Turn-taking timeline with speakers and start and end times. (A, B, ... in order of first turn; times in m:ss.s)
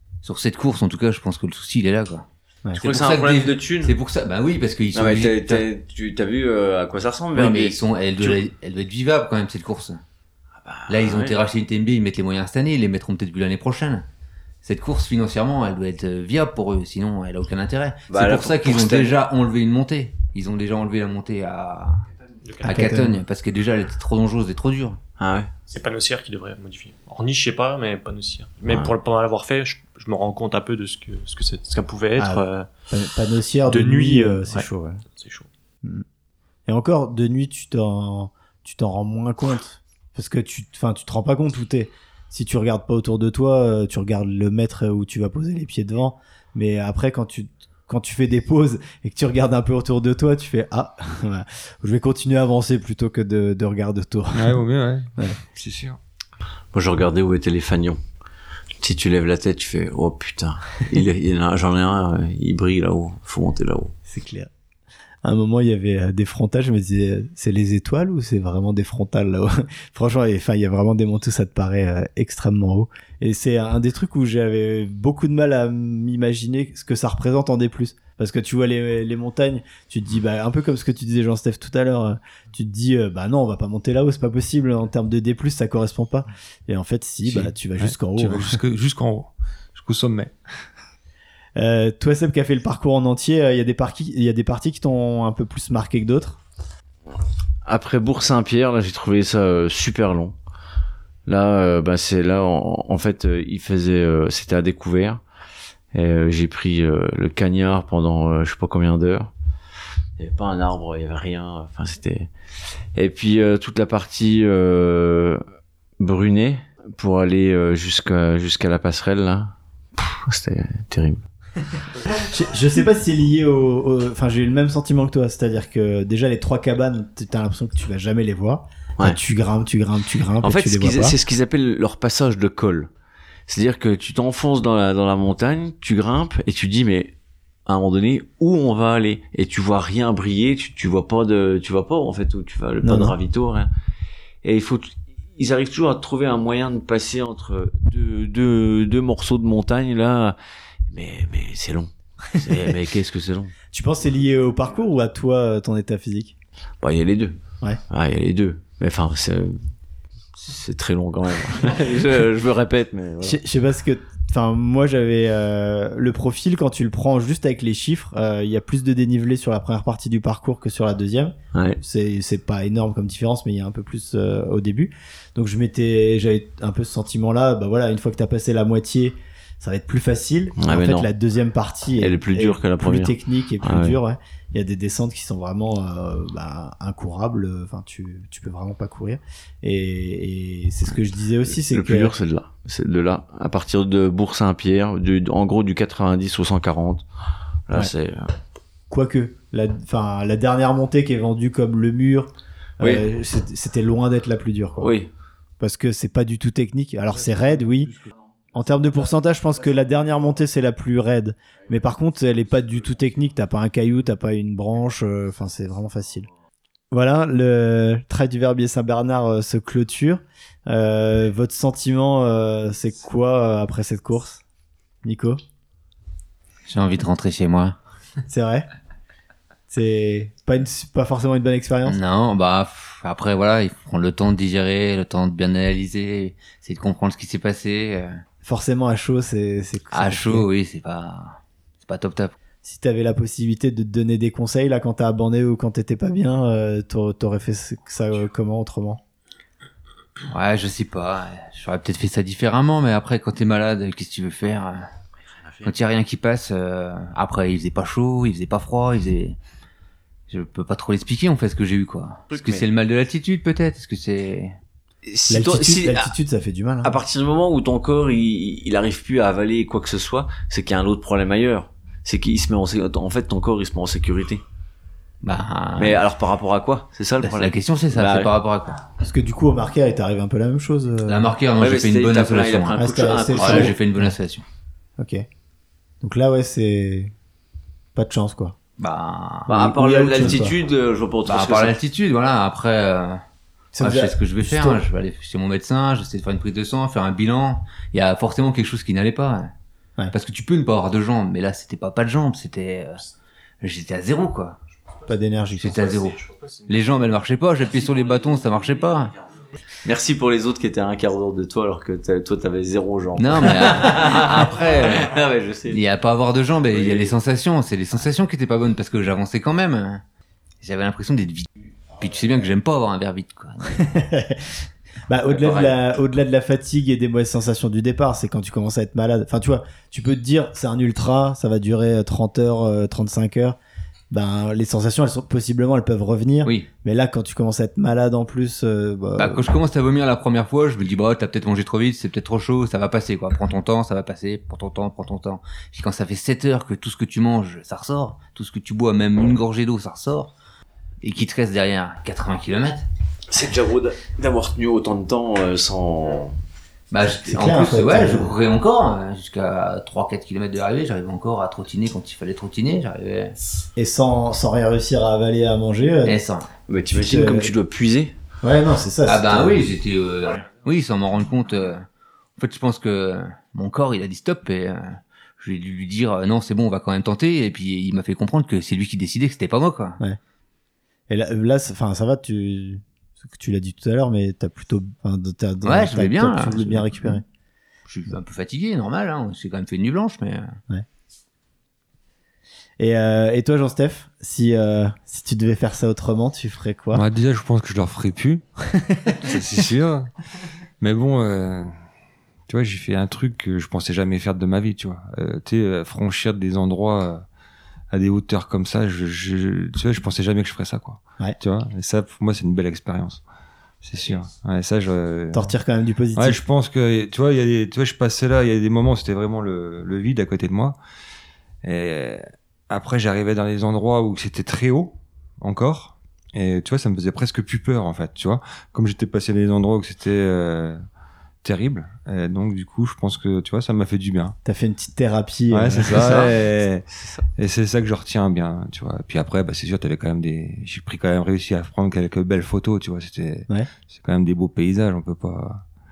0:00.2-0:05.6 A
0:02.8-0:04.0 B
0:04.9-0:08.4 B
0:07.3-0:10.0 A
0:10.5-0:11.4 B
0:10.9-0:14.0 A
0:14.6-0:22.0 A
0:18.1-0:19.2 B
0:22.4-0:22.8 C
0:22.6-0:25.0 A
0:22.6-0:23.2 D
0:25.2-0:25.5 B
0:25.7-0:32.7 C
0:28.6-0:28.9 B
0:32.2-0:35.0 D
0:33.7-0:35.5 C
0:36.7-0:54.6 D
0:54.3-0:56.0 E
0:56.7-0:58.0 B
0:58.8-1:03.9 B
1:04.1-1:04.5 D
1:05.2-1:28.6 D
1:27.2-1:30.4 E
1:31.6-1:36.4 D
1:37.6-1:40.4 B
1:41.2-1:45.2 B
1:45.9-1:49.3 B
1:50.2-1:52.3 B
1:52.9-1:55.4 B
1:56.0-2:01.2 B
2:02.0-2:11.2 D
2:10.4-2:12.9 B
2:13.5-2:17.1 B
2:17.6-2:23.7 B
2:22.8-2:23.2 D
2:24.4-2:30.4 B
2:30.9-2:33.5 B
2:33.7-2:36.3 D
2:36.8-2:37.4 B
2:37.9-2:39.6 B
2:40.3-2:43.4 B
2:43.2-3:12.1 D
2:51.5-2:51.8 B
3:00.6-3:01.1 B
3:02.0-3:04.0 B
3:11.4-3:17.0 B
3:17.7-3:18.3 B
3:18.9-3:24.9 D
3:22.8-3:23.1 B
3:24.8-3:25.1 B
3:25.6-3:27.9 D
3:28.5-3:36.3 D
3:36.9-3:44.4 D
3:45.0-3:45.4 D
3:46.7-3:47.8 A
3:48.3-3:48.7 D
3:49.7-3:52.0 D
3:51.8-3:58.2 A
3:58.4-4:00.4 D
3:59.9-4:02.4 A
4:02.6-4:09.0 D
4:10.3-4:14.9 A
4:15.6-4:19.4 A
4:20.3-4:24.6 A
4:22.3-4:22.7 B
4:25.0-4:26.1 B
4:25.3-4:26.9 D
4:26.8-4:34.4 B
4:35.2-4:36.0 A
4:35.8-4:38.3 B
4:37.2-4:38.8 A
4:39.0-4:41.3 D
4:41.0-4:42.8 A
4:41.6-4:43.8 B
4:42.8-4:44.0 D
4:43.3-4:44.4 A
4:45.0-4:45.2 D
4:46.0-4:47.1 D
4:47.9-4:48.6 D
4:48.8-4:49.5 A
4:49.5-4:51.8 B
4:49.5-4:50.5 D
4:51.2-4:53.2 A
4:53.7-4:54.8 D
4:53.8-4:59.5 A
5:00.1-5:03.0 A
5:03.6-5:04.6 A
5:05.1-5:05.8 D
5:05.6-5:09.2 A
5:09.8-5:15.8 B
5:13.2-5:15.2 A
5:15.7-5:20.0 A
5:16.7-5:17.1 B
5:20.6-5:23.9 A
5:23.8-5:33.6 D
5:25.4-5:25.7 B
5:34.1-5:39.5 D
5:39.2-5:50.3 A
5:51.0-5:52.8 A
5:53.3-5:56.4 B
5:56.9-6:03.4 A
5:57.2-5:58.3 D
6:03.8-6:06.2 D
6:06.0-6:06.5 A
6:06.7-6:08.1 B
6:06.9-6:07.5 D
6:08.4-6:09.6 D
6:09.0-6:11.8 A
6:12.4-6:20.0 A
6:21.1-6:27.2 D
6:25.6-6:27.2 A
6:27.9-6:30.6 A
6:32.8-6:37.0 D
6:36.9-6:38.4 E
6:38.8-6:39.2 D
6:39.1-6:40.1 E
6:40.8-6:41.7 E
6:42.5-6:47.2 E
6:47.9-6:53.2 E
6:53.8-6:55.5 E
6:55.3-6:56.4 D
6:56.1-7:00.8 E
7:01.6-7:10.8 E
7:11.4-7:14.4 E
7:14.4-7:16.3 D
7:15.5-7:16.8 E
7:15.8-7:17.2 B
7:17.4-7:25.6 E